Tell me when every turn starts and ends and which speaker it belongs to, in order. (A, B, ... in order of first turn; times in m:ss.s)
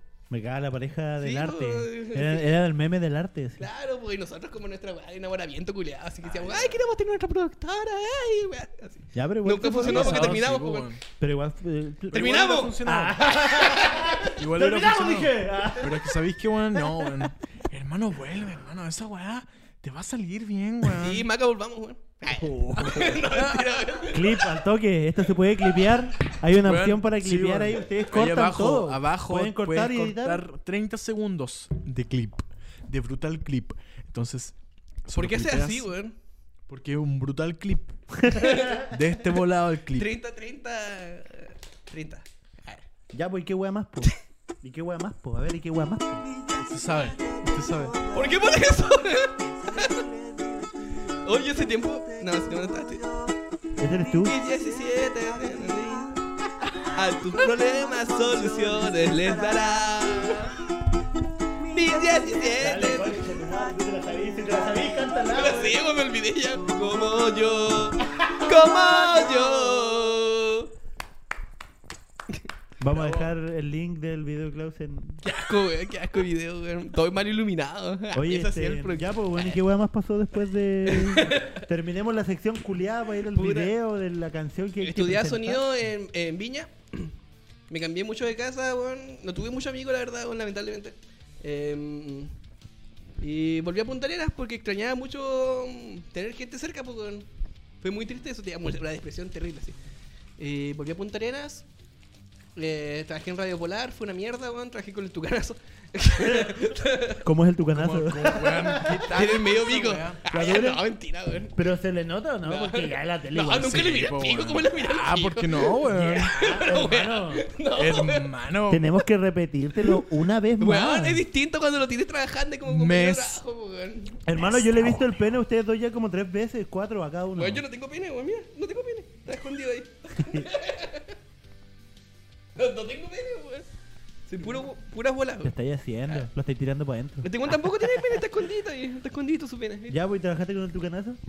0:00.3-0:03.7 A
0:01.2-0:02.5 B
0:03.6-0:10.9 B
0:06.3-0:06.8 C
0:09.1-0:10.5 A
0:09.8-0:11.0 C
0:11.2-0:16.1 A
0:12.1-0:13.2 C
0:12.1-0:12.8 B
0:13.4-0:14.2 B
0:14.4-0:21.3 C
0:20.9-0:24.5 B
0:22.3-0:23.2 A
0:23.3-0:23.7 C
0:24.1-0:30.4 A
0:26.6-0:34.5 C
0:35.0-0:35.9 C
0:35.1-0:36.1 B
0:36.7-0:38.2 C
0:38.2-0:38.7 A
0:38.3-0:38.8 B
0:38.8-0:40.1 C
0:39.9-0:42.8 B
0:43.1-0:44.1 A
0:44.6-0:46.2 A
0:46.5-0:48.0 C
0:48.1-0:50.1 B
0:49.6-0:50.6 A
0:51.1-0:53.1 B
0:53.8-0:54.4 A
0:54.2-0:56.2 B
0:56.7-1:00.5 B
1:01.6-1:03.2 B
1:02.6-1:05.8 A
1:05.3-1:10.7 B
1:08.1-1:09.4 A
1:12.8-1:15.2 A
1:13.0-1:13.2 B
1:15.2-1:19.6 B
1:18.1-1:25.7 A
1:20.8-1:21.6 B
1:23.3-1:23.7 B
1:24.8-1:27.1 B
1:27.7-1:32.3 B
1:33.2-1:37.3 B
1:37.8-1:39.8 B
1:40.4-1:41.6 B
1:42.6-1:47.2 B
1:47.2-1:49.0 A
1:47.7-1:50.2 C
1:49.1-1:51.5 B
1:50.3-1:50.8 A
1:51.5-1:53.9 A
1:52.4-1:58.3 B
1:53.6-1:56.3 C
1:55.8-1:57.5 A
1:57.8-1:58.9 C
1:58.7-2:01.2 A
2:00.6-2:04.2 B
2:02.6-2:03.4 C
2:04.2-2:07.6 A
2:07.4-2:11.1 B
2:10.2-2:10.5 A
2:12.6-2:13.7 B
2:14.3-2:15.5 B
2:15.4-2:18.2 A
2:17.2-2:20.0 B
2:19.9-2:21.2 A